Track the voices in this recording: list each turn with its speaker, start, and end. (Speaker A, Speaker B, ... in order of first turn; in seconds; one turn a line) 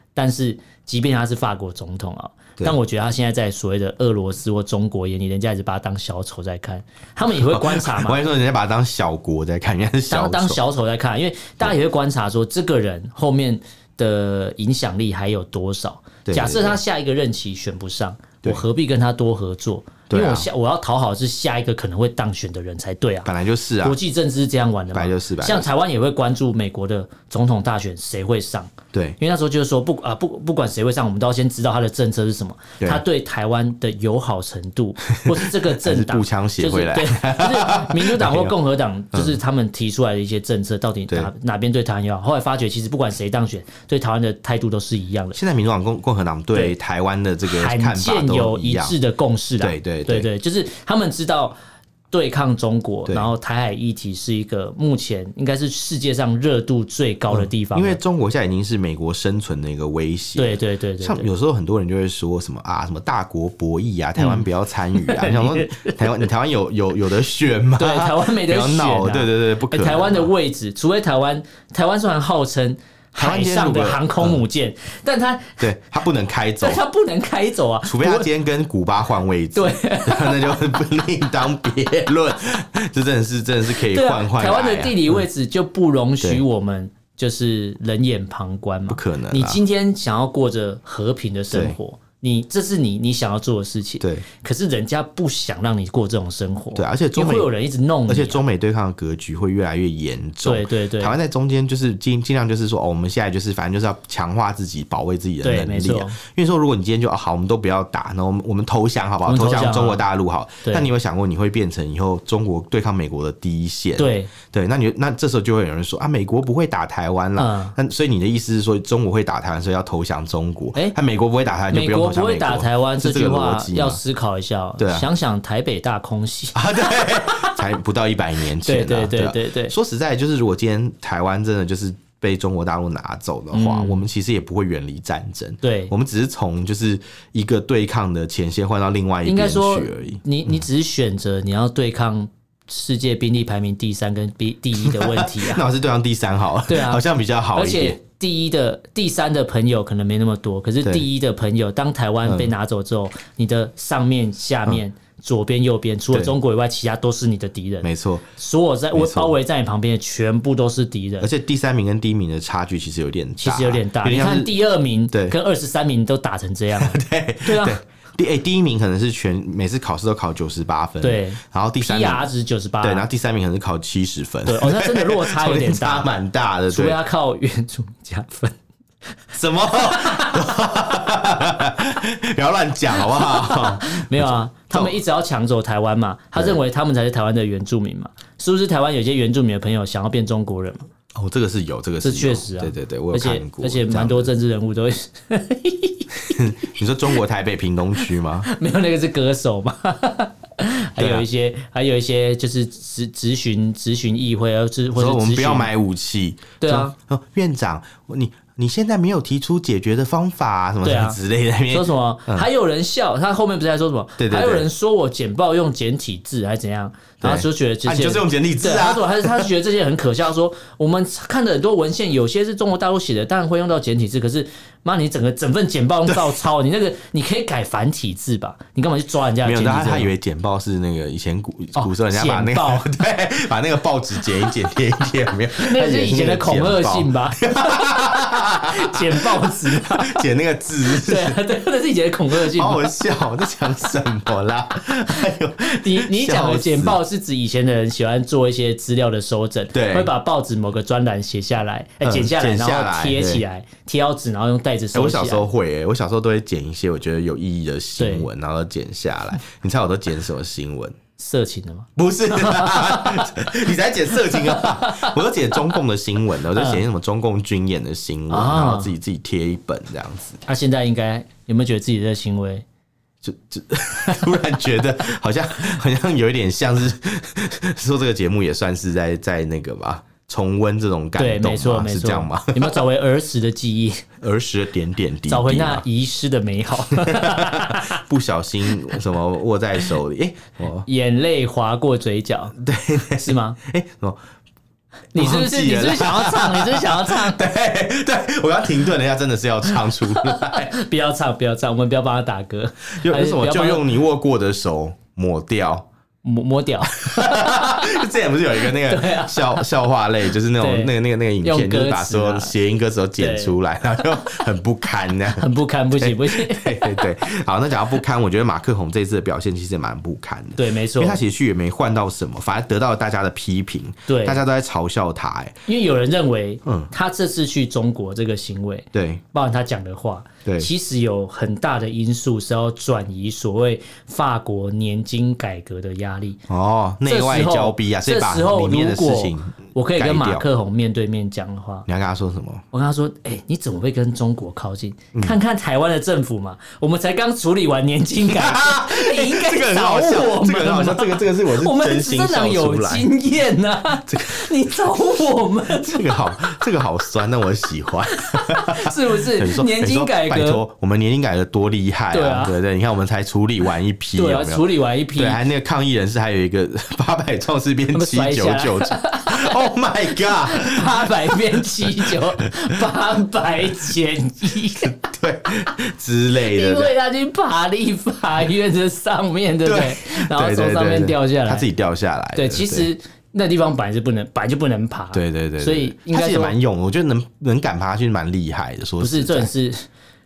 Speaker A: 0.1-8.2
Speaker B: 7.3-10.6
Speaker A: 10.1-23.3
Speaker B: 16.2-16.8
Speaker B: 20.1-20.5
Speaker B: 23.2-24.0
Speaker A: 23.8-45.4
Speaker B: 24.9-25.7
Speaker B: 35.1-38.5
Speaker B: 39.1-39.4
Speaker B: 45.3-49.0
Speaker A: 47.4-51.5
Speaker B: 49.6-50.3
Speaker A: 52.1-58.0
Speaker B: 53.0-53.3
Speaker B: 57.3-70.3
Speaker A: 60.4-61.3
Speaker A: 64.2-66.3
Speaker A: 67.8-75.6
Speaker B: 73.2-74.4
Speaker B: 75.6-76.8
Speaker A: 76.6-78.3
Speaker B: 77.8-85.2
Speaker A: 79.5-80.6
Speaker A: 83.7-98.4
Speaker B: 88.9-89.6
Speaker B: 91.5-91.8
Speaker B: 94.0-94.2
Speaker B: 96.7-97.5
Speaker B: 98.1-124.0
Speaker A: 100.4-101.1
Speaker A: 105.4-106.2
Speaker A: 109.2-110.0
Speaker A: 114.0-114.3
Speaker A: 117.4-117.8
Speaker A: 121.7-127.6
Speaker B: 124.8-125.1
Speaker B: 126.5-140.6
Speaker A: 128.6-129.7
Speaker A: 133.5-134.1
Speaker A: 135.6-135.9
Speaker A: 139.2-145.6
Speaker B: 144.8-148.0
Speaker A: 146.7-161.3
Speaker B: 152.2-152.5
Speaker B: 157.8-158.3
Speaker B: 158.9-159.3
Speaker B: 161.2-164.5
Speaker A: 163.4-167.8
Speaker B: 165.1-165.4
Speaker B: 166.8-172.3
Speaker A: 171.0-173.1
Speaker B: 172.8-177.0
Speaker A: 174.4-176.1
Speaker A: 176.7-178.6
Speaker B: 179.3-185.0
Speaker A: 179.7-180.7
Speaker A: 183.0-190.8
Speaker B: 191.1-194.3
Speaker A: 192.0-196.4
Speaker B: 196.3-198.5
Speaker A: 198.0-205.7
Speaker B: 201.0-201.2
Speaker B: 204.9-212.5
Speaker A: 206.6-206.9
Speaker A: 210.8-211.2
Speaker A: 211.7-230.1
Speaker B: 214.2-214.7
Speaker B: 217.2-219.5
Speaker B: 226.1-226.3
Speaker B: 229.4-241.4
Speaker A: 231.8-232.9
Speaker A: 235.5-240.2
Speaker A: 240.8-242.9
Speaker B: 242.3-247.0
Speaker A: 245.6-255.5
Speaker B: 249.7-250.1
Speaker B: 252.0-253.4
Speaker B: 254.9-260.9
Speaker A: 258.0-258.3
Speaker A: 261.2-263.4
Speaker B: 261.9-270.4
Speaker A: 264.2-265.7
Speaker A: 266.5-266.8
Speaker A: 268.3-268.9
Speaker A: 270.4-272.6
Speaker B: 273.2-282.8
Speaker A: 274.1-274.3
Speaker A: 281.2-284.1
Speaker B: 284.2-285.8
Speaker A: 285.3-288.0
Speaker B: 287.0-290.9
Speaker A: 290.8-292.5
Speaker B: 292.6-294.2
Speaker A: 293.2-293.6
Speaker A: 295.1-297.5
Speaker B: 295.1-300.7
Speaker A: 300.1-303.8
Speaker B: 302.9-305.9
Speaker A: 306.2-308.0
Speaker B: 306.9-325.6
Speaker A: 308.6-309.7
Speaker A: 310.6-312.5
Speaker A: 313.2-313.5
Speaker A: 315.3-317.1
Speaker A: 320.6-321.2
Speaker A: 324.1-324.4
Speaker A: 325.7-336.4
Speaker B: 326.6-326.9
Speaker B: 328.9-329.2
Speaker B: 330.4-330.7
Speaker B: 336.5-340.4
Speaker A: 337.0-341.9
Speaker B: 341.9-342.6
Speaker A: 342.7-356.4
Speaker B: 348.2-353.1
Speaker B: 354.0-354.5
Speaker B: 355.8-372.7
Speaker A: 358.3-360.6
Speaker A: 362.1-362.6
Speaker A: 364.1-365.4
Speaker A: 367.9-374.9
Speaker B: 374.8-376.9
Speaker A: 376.4-381.7
Speaker B: 379.6-382.9
Speaker A: 382.4-386.6
Speaker B: 385.1-389.5
Speaker A: 389.0-389.9